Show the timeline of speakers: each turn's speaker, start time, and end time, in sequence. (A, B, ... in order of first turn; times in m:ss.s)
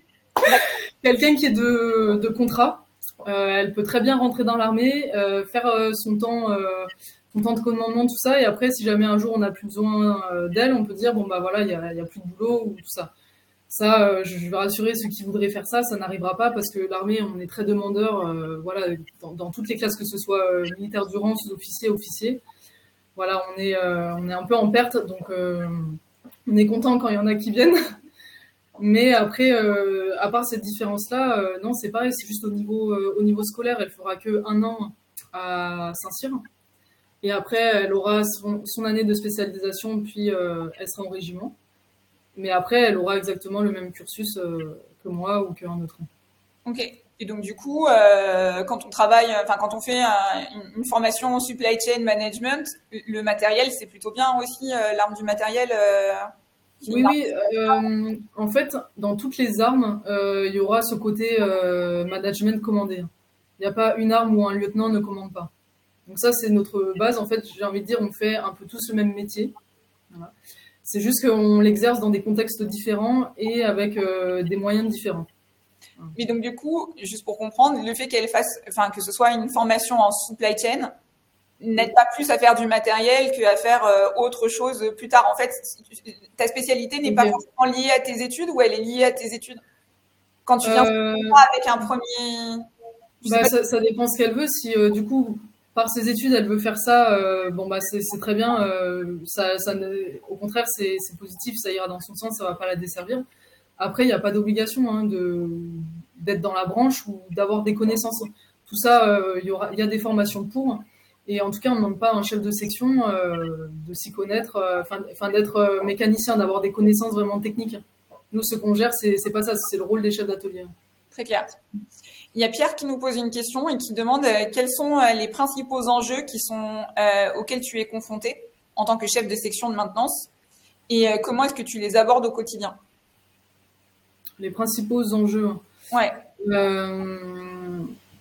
0:00.4-0:13.1 A
0:00.4-0:00.7 B
0:13.7-0:22.4 A
0:23.2-0:27.8 A
0:28.8-0:36.4 A
0:37.2-0:41.6 A
0:42.4-0:46.1 A
0:46.7-0:56.3 B
0:56.8-0:57.2 B
0:56.9-1:05.5 A
1:06.1-1:09.5 A
1:10.8-1:15.3 A
1:16.2-1:20.9 B
1:21.6-1:29.6 B
1:27.1-1:27.4 A
1:30.5-1:32.7 B
1:30.6-1:31.4 A
1:33.2-1:33.5 B
1:33.2-1:43.3 A
1:43.8-2:00.7 A
2:01.1-2:01.6 B
2:02.3-2:10.3 B
2:10.9-2:12.8 B
2:14.4-2:15.6 A
2:15.9-2:16.2 B
2:16.4-2:17.9 A